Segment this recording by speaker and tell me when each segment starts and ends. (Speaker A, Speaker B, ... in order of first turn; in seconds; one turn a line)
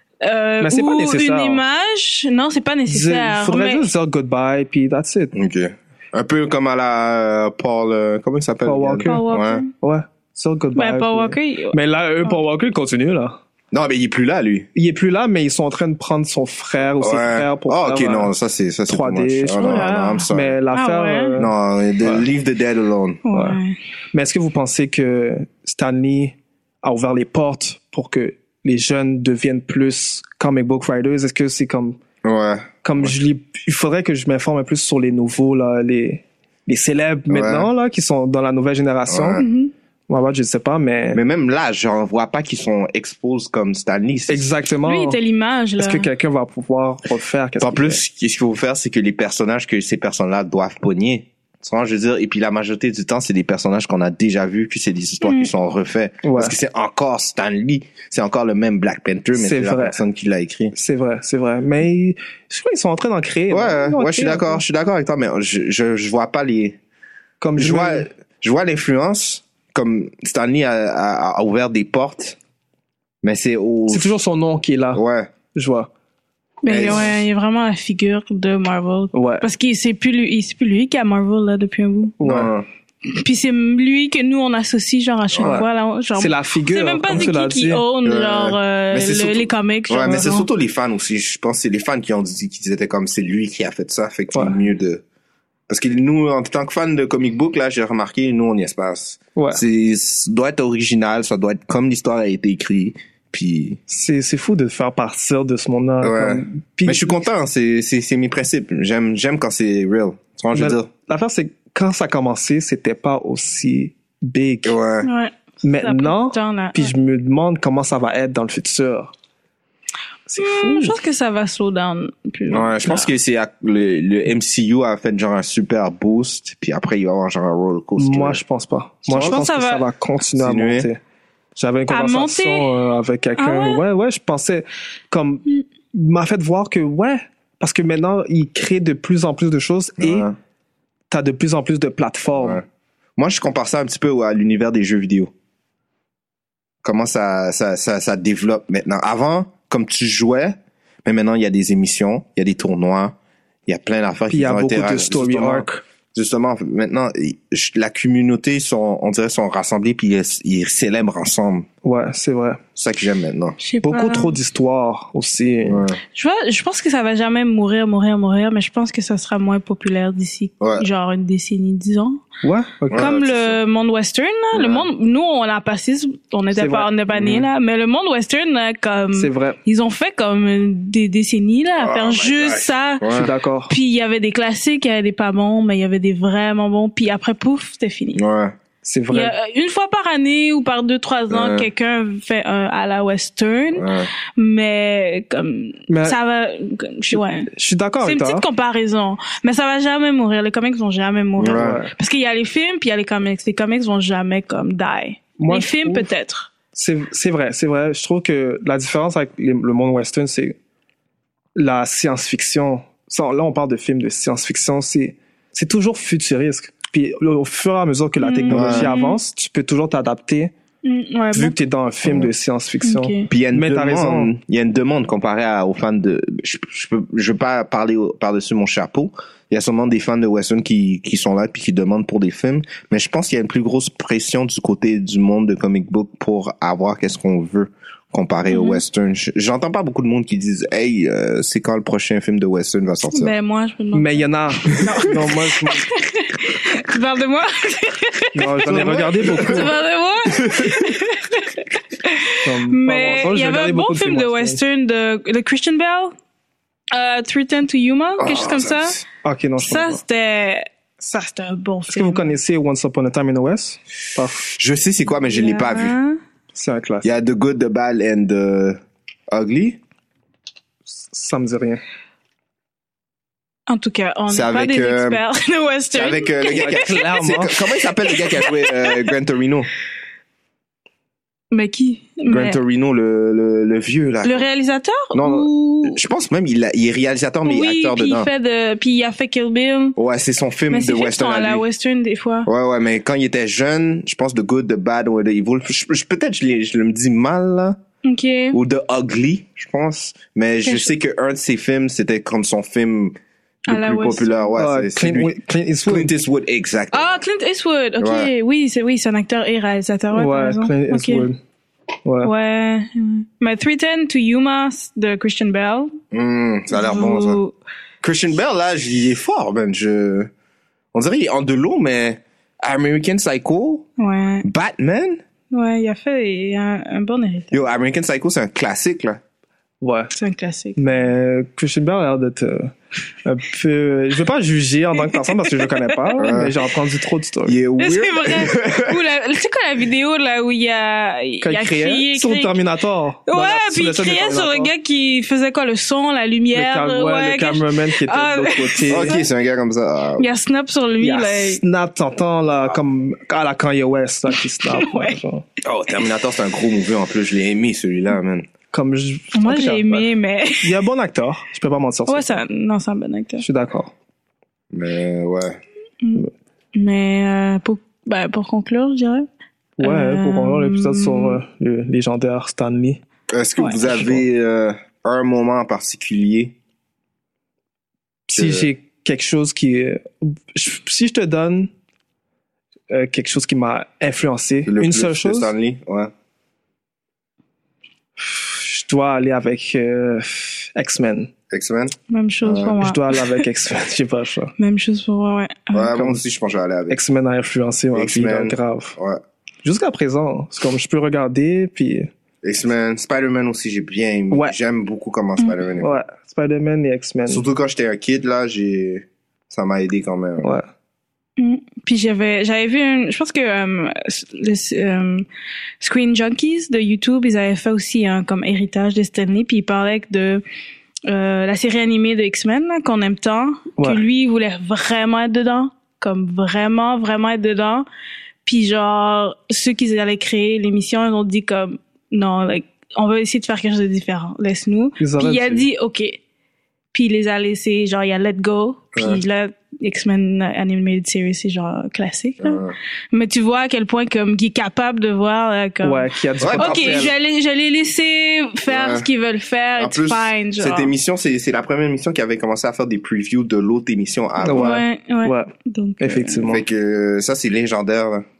Speaker A: 0.2-3.9
Speaker B: 0.6-1.6
Speaker B: 2.9-5.3
Speaker C: 5.3-9.6
Speaker B: 8.6-9.2
Speaker A: 9.0-9.7
Speaker B: 9.8-13.4
Speaker A: 10.8-12.3
Speaker C: 13.7-14.7
Speaker B: 14.7-18.3
Speaker C: 17.0-20.6
Speaker B: 18.9-22.2
Speaker A: 19.6-21.3
Speaker C: 21.4-23.2
Speaker A: 23.2-23.8
Speaker B: 23.3-23.6
Speaker B: 24.1-32.0
Speaker C: 32.2-33.1
Speaker B: 32.8-39.4
Speaker C: 37.3-37.7
Speaker C: 39.1-39.4
Speaker A: 39.4-39.7
Speaker B: 40.1-41.2
Speaker C: 41.1-44.5
Speaker B: 44.3-45.2
Speaker A: 44.9-46.1
Speaker B: 45.8-48.0
Speaker C: 47.6-60.7
Speaker A: 55.2-55.5
Speaker B: 56.2-56.5
Speaker B: 59.3-60.0
Speaker B: 60.7-64.6
Speaker C: 63.5-66.8
Speaker B: 67.4-68.1
Speaker C: 67.6-72.4
Speaker C: 73.2-74.1
Speaker B: 73.9-75.0
Speaker C: 74.9-75.3
Speaker B: 75.5-75.9
Speaker A: 76.6-82.2
Speaker C: 76.7-77.1
Speaker B: 79.1-79.4
Speaker B: 82.2-82.5
Speaker C: 82.2-82.7
Speaker A: 83.0-90.5
Speaker C: 85.3-85.6
Speaker B: 85.4-87.8
Speaker C: 88.0-95.0
Speaker C: 95.7-103.8
Speaker B: 99.3-99.6
Speaker B: 103.9-107.2
Speaker C: 106.0-110.9
Speaker B: 110.5-114.8
Speaker C: 114.6-115.1
Speaker A: 115.0-116.9
Speaker B: 115.6-119.1
Speaker B: 120.3-121.0
Speaker A: 120.4-123.1
Speaker C: 122.5-128.4
Speaker B: 128.0-131.0
Speaker C: 129.1-129.5
Speaker A: 129.1-129.8
Speaker C: 130.3-130.9
Speaker B: 131.6-140.3
Speaker A: 131.9-132.7
Speaker A: 133.4-133.8
Speaker C: 140.0-140.3
Speaker B: 141.1-142.6
Speaker C: 142.3-142.6
Speaker C: 143.2-145.3
Speaker C: 146.8-153.2
Speaker C: 153.7-161.7
Speaker B: 154.3-155.8
Speaker B: 161.8-162.6
Speaker C: 162.8-163.6
Speaker A: 163.6-164.3
Speaker B: 163.8-165.8
Speaker C: 165.6-166.0
Speaker A: 166.1-172.2
Speaker C: 170.6-170.8
Speaker B: 172.4-173.1
Speaker C: 172.9-173.6
Speaker A: 172.9-188.2
Speaker C: 174.5-174.9
Speaker B: 176.5-177.3
Speaker C: 177.1-177.4
Speaker B: 179.2-179.6
Speaker C: 181.8-183.3
Speaker B: 183.1-183.7
Speaker C: 188.1-188.5
Speaker B: 188.8-189.3
Speaker A: 189.1-197.5
Speaker C: 191.3-191.7
Speaker C: 193.7-194.1
Speaker B: 195.9-196.2
Speaker B: 197.1-198.4
Speaker A: 198.0-206.5
Speaker C: 201.4-201.8
Speaker B: 201.5-201.9
Speaker B: 205.4-206.1
Speaker B: 206.7-210.6
Speaker B: 211.6-220.5
Speaker A: 218.2-219.2
Speaker C: 218.5-218.9
Speaker A: 220.8-221.6
Speaker B: 221.3-224.3
Speaker C: 222.0-222.3
Speaker A: 222.8-223.2
Speaker C: 223.3-243.3
Speaker A: 238.5-238.8
Speaker A: 243.1-256.1
Speaker B: 243.9-245.9
Speaker B: 248.3-249.7
Speaker C: 248.6-249.7
Speaker C: 250.2-250.9
Speaker B: 252.4-254.6
Speaker A: 256.9-259.0
Speaker C: 258.2-259.0
Speaker B: 259.2-260.0
Speaker A: 259.6-262.3
Speaker B: 261.9-264.5
Speaker C: 264.6-265.9
Speaker A: 265.3-266.2
Speaker B: 266.5-267.1
Speaker C: 267.0-269.8
Speaker B: 270.9-271.8
Speaker A: 273.7-277.0
Speaker C: 274.3-275.2
Speaker C: 275.9-279.7
Speaker B: 276.5-277.6
Speaker A: 278.0-279.1
Speaker A: 281.5-282.6
Speaker C: 282.3-284.4
Speaker A: 284.2-286.0
Speaker C: 285.1-288.3
Speaker A: 287.4-289.9
Speaker C: 290.0-291.6
Speaker A: 290.7-292.5
Speaker C: 292.4-297.8
Speaker A: 298.0-298.6
Speaker C: 298.5-303.1
Speaker A: 300.6-300.9
Speaker A: 303.7-304.4
Speaker C: 303.7-307.2
Speaker B: 304.6-306.1
Speaker A: 306.9-311.2
Speaker C: 308.0-308.3
Speaker B: 310.1-311.4
Speaker B: 312.0-312.3
Speaker A: 312.2-315.9
Speaker C: 316.1-317.4
Speaker A: 316.7-317.5
Speaker C: 318.0-320.3
Speaker C: 320.9-323.9
Speaker A: 324.0-324.4
Speaker C: 324.4-325.2
Speaker A: 325.5-327.6
Speaker C: 327.5-329.2
Speaker B: 329.8-330.1
Speaker A: 330.1-330.8
Speaker B: 330.8-337.6
Speaker A: 335.1-336.2
Speaker C: 336.2-336.5
Speaker C: 337.4-339.0
Speaker A: 337.8-342.6
Speaker B: 341.4-344.7
Speaker A: 343.3-349.2
Speaker B: 346.5-349.2
Speaker C: 348.9-350.3
Speaker A: 350.2-351.6
Speaker B: 351.0-355.4
Speaker A: 354.7-355.2
Speaker C: 355.6-358.4
Speaker B: 358.7-360.1
Speaker A: 359.3-360.8
Speaker B: 360.6-362.4
Speaker A: 362.1-363.4
Speaker B: 363.4-363.9
Speaker C: 364.7-365.6
Speaker A: 366.0-369.3
Speaker B: 369.8-373.0
Speaker A: 369.8-371.4
Speaker C: 373.3-376.5
Speaker A: 373.6-373.9
Speaker C: 378.3-378.7
Speaker B: 378.3-381.7
Speaker B: 382.9-385.5
Speaker C: 384.6-386.1
Speaker B: 388.2-391.3
Speaker C: 391.5-392.8
Speaker A: 392.1-393.4
Speaker B: 392.8-394.5
Speaker A: 394.6-395.9
Speaker C: 395.7-397.0
Speaker B: 395.9-396.2
Speaker B: 396.9-399.0
Speaker C: 397.9-399.2
Speaker B: 399.6-402.1
Speaker C: 402.4-406.0
Speaker B: 405.8-407.4
Speaker C: 407.3-410.6
Speaker B: 410.4-410.7
Speaker A: 411.4-415.2
Speaker A: 415.8-420.4
Speaker A: 421.1-427.9
Speaker B: 423.8-424.0
Speaker A: 428.4-436.2
Speaker B: 435.0-435.7
Speaker A: 436.9-450.9
Speaker C: 438.9-439.2
Speaker C: 442.4-442.7
Speaker B: 445.8-447.1
Speaker C: 446.4-447.1
Speaker C: 448.7-449.1
Speaker C: 449.8-454.8
Speaker B: 454.4-456.6
Speaker A: 454.6-456.4
Speaker C: 456.4-458.2